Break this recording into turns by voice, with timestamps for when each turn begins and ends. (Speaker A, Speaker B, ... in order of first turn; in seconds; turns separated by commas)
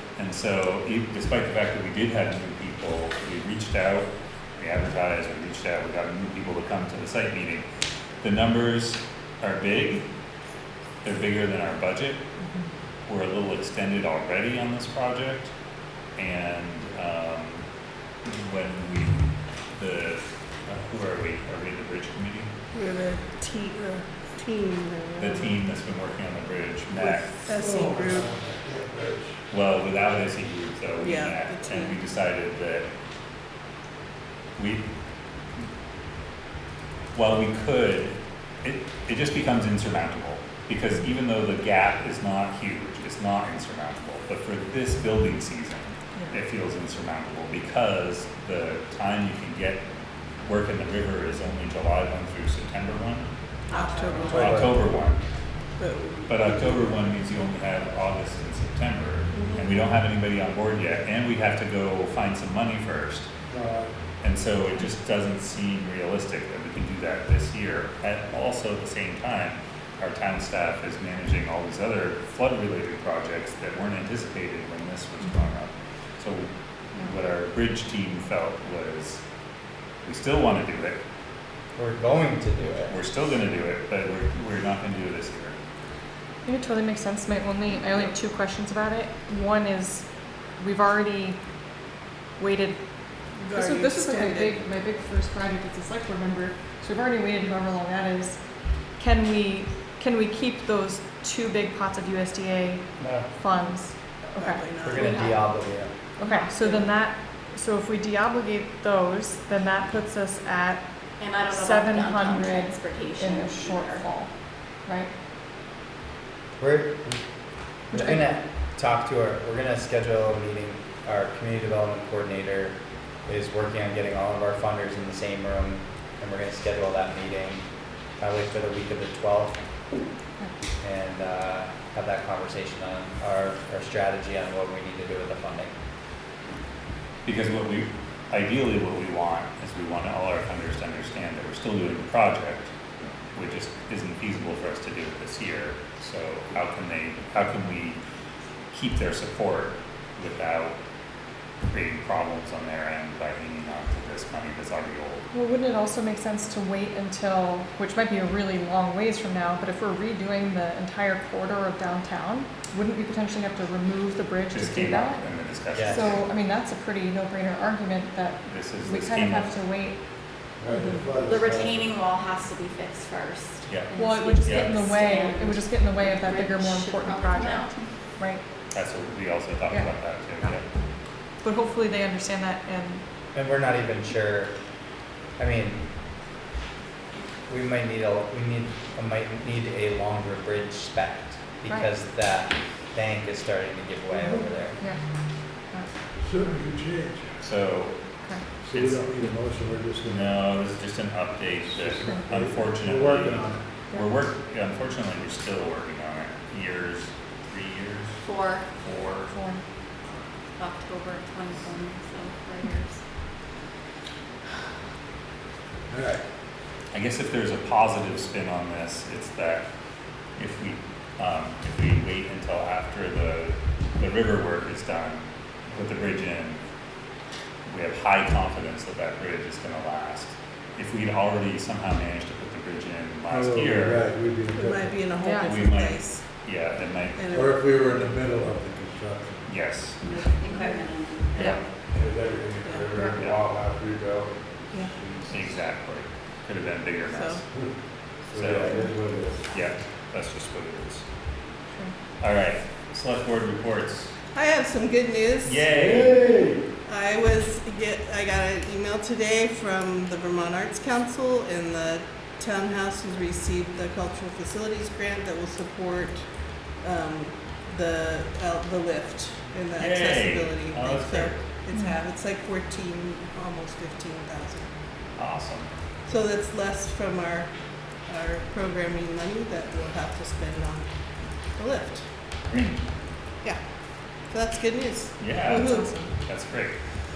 Speaker A: 0.2-7.7, Speaker A: 8.2-10.1, Speaker A: 11.0-12.2, Speaker A: 13.1-15.5, Speaker A: 16.2-17.6, Speaker A: 18.2-22.5, Speaker B: 22.7-25.6, Speaker A: 25.2-27.3, Speaker B: 26.9-28.3, Speaker C: 27.5-29.4, Speaker A: 29.5-32.9, Speaker B: 31.0-32.0, Speaker A: 34.6-34.9, Speaker A: 37.1-49.8, Speaker A: 50.5-53.3, Speaker D: 53.7-54.6, Speaker B: 53.7-54.5, Speaker A: 54.2-55.2, Speaker C: 54.3-54.7, Speaker B: 55.8-56.5, Speaker A: 56.3-63.3, Speaker B: 59.4-59.6, Speaker C: 63.5-63.9, Speaker A: 64.2-79.2, Speaker A: 80.0-81.0, Speaker E: 81.8-83.0, Speaker A: 82.9-85.6, Speaker F: 86.5-90.1, Speaker F: 90.6-91.4, Speaker F: 92.4-92.8, Speaker B: 93.4-94.6, Speaker F: 93.5-98.4, Speaker F: 99.0-105.0, Speaker B: 104.3-105.1, Speaker E: 104.8-105.9, Speaker D: 105.0-105.5, Speaker F: 106.2-110.8, Speaker B: 106.6-106.9, Speaker D: 111.2-114.1, Speaker F: 111.5-114.3, Speaker F: 114.8-115.1, Speaker E: 116.6-117.2, Speaker F: 117.9-118.2, Speaker E: 117.9-127.6, Speaker E: 128.2-129.6, Speaker E: 130.8-135.7, Speaker A: 137.2-142.7, Speaker A: 143.3-148.0, Speaker A: 148.7-150.8, Speaker A: 151.7-155.2, Speaker F: 155.3-165.4, Speaker A: 164.5-166.3, Speaker E: 165.7-166.2, Speaker F: 165.9-170.0, Speaker A: 168.5-169.6, Speaker C: 170.6-171.9, Speaker F: 170.7-171.0, Speaker D: 171.1-177.9, Speaker A: 173.7-174.8, Speaker F: 174.0-178.4, Speaker A: 178.7-180.7, Speaker F: 179.7-180.6, Speaker F: 181.4-183.0, Speaker E: 183.3-184.5, Speaker E: 185.4-185.9, Speaker E: 187.5-194.8, Speaker C: 196.2-197.2, Speaker A: 197.4-198.0, Speaker C: 198.6-200.4, Speaker A: 198.7-199.1, Speaker A: 200.1-208.2, Speaker C: 201.7-203.6, Speaker F: 202.0-202.3, Speaker D: 208.2-208.7, Speaker A: 208.7-209.3, Speaker F: 209.3-209.6, Speaker D: 210.6-213.0, Speaker C: 215.9-216.2, Speaker A: 216.9-219.7, Speaker A: 220.4-226.6, Speaker A: 227.7-234.1, Speaker C: 233.3-235.2, Speaker B: 234.5-236.2, Speaker F: 235.2-235.6, Speaker A: 235.4-237.2, Speaker B: 237.2-237.6, Speaker C: 237.3-239.5, Speaker A: 239.5-240.1, Speaker D: 240.0-241.6, Speaker C: 241.9-245.4, Speaker B: 242.6-242.9, Speaker F: 243.0-243.2, Speaker A: 245.3-247.4, Speaker B: 247.1-247.4, Speaker C: 248.3-249.4, Speaker A: 248.3-248.9, Speaker A: 249.5-251.1, Speaker A: 252.2-254.1, Speaker B: 254.3-255.7, Speaker A: 255.4-256.3, Speaker C: 255.7-256.6, Speaker B: 256.9-274.7, Speaker A: 269.7-271.4, Speaker F: 271.7-272.0, Speaker A: 275.2-275.7, Speaker B: 276.1-277.5, Speaker B: 278.1-280.8, Speaker B: 281.6-282.1, Speaker B: 284.3-286.2, Speaker A: 285.2-286.8